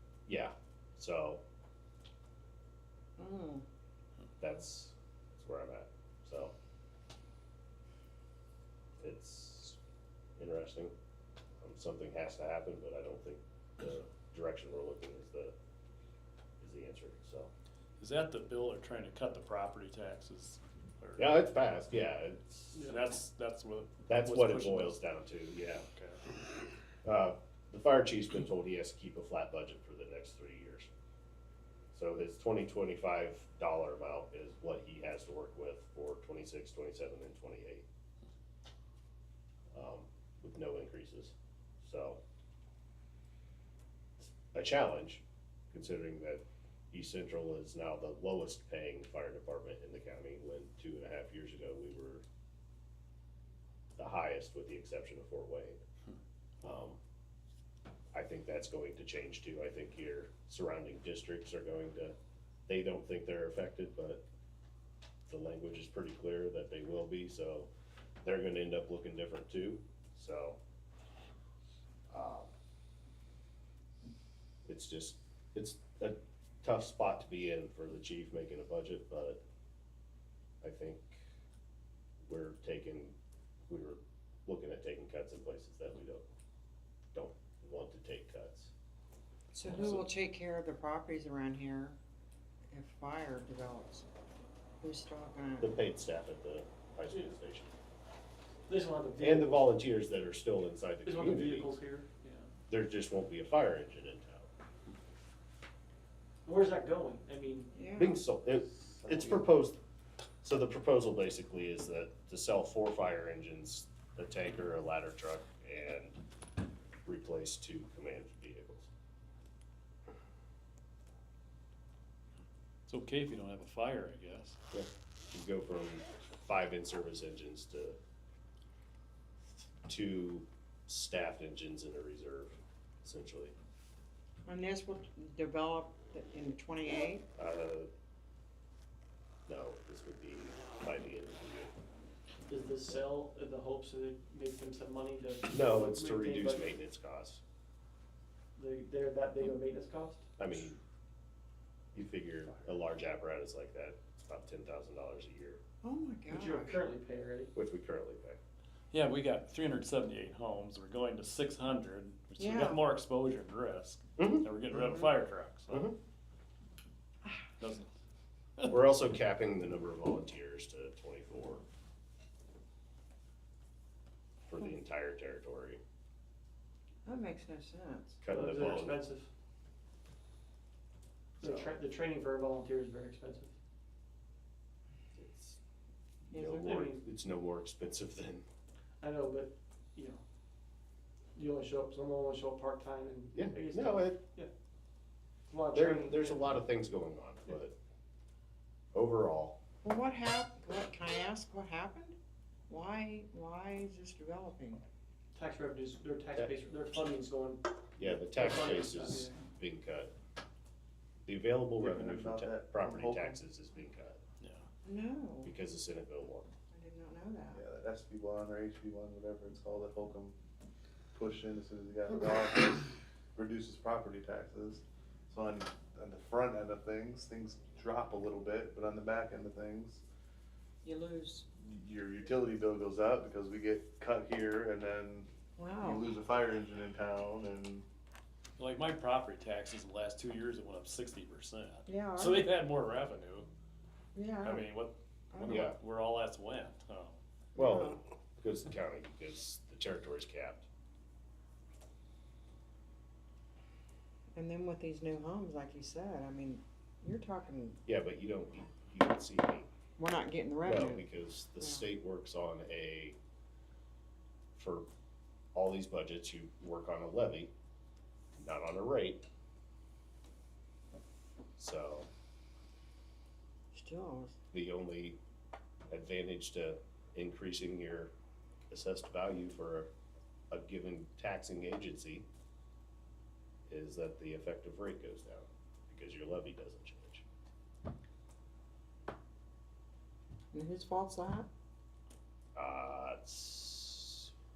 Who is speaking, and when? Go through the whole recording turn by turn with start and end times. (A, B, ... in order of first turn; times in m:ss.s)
0:00.3-0:01.4 A
0:03.2-0:03.6 B
0:04.4-0:06.5 A
0:09.0-0:09.8 A
0:10.4-0:10.9 A
0:11.6-0:15.5 A
0:16.6-0:17.5 A
0:18.0-0:21.2 C
0:21.2-0:22.9 A
0:22.8-0:24.9 C
0:24.1-0:25.8 A
0:26.0-0:26.2 C
0:27.0-0:30.9 A
0:31.9-0:37.8 A
0:39.7-0:42.2 A
0:44.2-0:52.2 A
0:54.0-0:55.8 A
0:56.6-0:57.0 A
0:58.1-1:02.1 A
1:02.7-1:04.2 A
1:05.3-1:07.7 A
1:08.2-1:10.6 A
1:12.1-1:12.5 A
1:14.7-1:19.4 A
1:20.6-1:21.2 A
1:22.3-1:23.1 A
1:23.7-1:26.2 A
1:27.1-1:28.7 A
1:29.5-1:32.0 B
1:32.7-1:34.0 B
1:34.8-1:35.7 B
1:35.6-1:37.7 A
1:38.7-1:39.7 D
1:39.2-1:41.7 A
1:41.0-1:42.5 D
1:42.7-1:44.5 A
1:46.4-1:47.7 D
1:47.7-1:48.2 B
1:48.0-1:49.8 A
1:50.4-1:56.2 A
1:57.0-1:58.9 A
2:02.9-2:04.6 C
2:04.7-2:08.0 A
2:09.9-2:13.5 A
2:14.4-2:17.2 B
2:17.4-2:17.9 A
2:19.5-2:21.7 A
2:22.5-2:26.7 D
2:25.5-2:27.4 A
2:28.6-2:30.3 D
2:30.4-2:30.8 A
2:31.9-2:35.6 A
2:35.8-2:36.8 B
2:36.3-2:37.5 D
2:37.5-2:38.4 A
2:38.9-2:45.9 C
2:42.4-2:42.8 B
2:44.2-2:44.4 A
2:45.7-2:46.0 A
2:47.6-2:47.9 C
2:48.7-2:51.6 A
2:54.4-2:55.8 A
2:57.0-2:58.2 B
2:58.2-2:59.0 A
2:58.3-2:59.3 D
3:01.4-3:03.5 D
3:01.4-3:01.7 A
3:05.2-3:05.6 A
3:06.3-3:07.0 D
3:06.3-3:08.4 A
3:09.0-3:10.2 D
3:11.3-3:14.5 D
3:13.3-3:14.2 A
3:15.5-3:16.5 D
3:15.7-3:17.7 A
3:18.9-3:19.6 A
3:19.8-3:22.2 B
3:22.7-3:24.8 B
3:25.3-3:27.6 D
3:28.0-3:30.1 A
3:28.2-3:29.3 D
3:31.2-3:34.2 A
3:31.8-3:33.4 E
3:34.4-3:34.6 C
3:34.8-3:35.5 B
3:35.4-3:36.5 A
3:36.7-3:37.6 B
3:37.5-3:40.3 E
3:41.1-3:50.0 E
3:50.8-3:51.4 B
3:51.6-3:55.3 E
3:55.6-3:56.1 B
3:55.8-3:57.8 E
3:58.6-4:03.5 C
4:01.8-4:02.5 B
4:04.1-4:04.7 B
4:04.4-4:07.2 C
4:05.3-4:05.7 B
4:05.4-4:05.8 A
4:07.6-4:08.0 B
4:07.6-4:10.6 A
4:14.3-4:17.8 B
4:17.8-4:19.7 A
4:20.0-4:21.1 B
4:20.6-4:23.2 A
4:21.6-4:21.8 B
4:24.6-4:24.9 A
4:25.5-4:27.5 A
4:28.4-4:29.2 A
4:31.6-4:32.1 A
4:33.7-4:34.4 B
4:34.5-4:35.2 A
4:35.9-4:38.1 A
4:38.7-4:39.9 A
4:40.5-4:42.2 A
4:43.7-4:47.2 A
4:50.5-4:51.5 B
4:52.5-4:54.3 A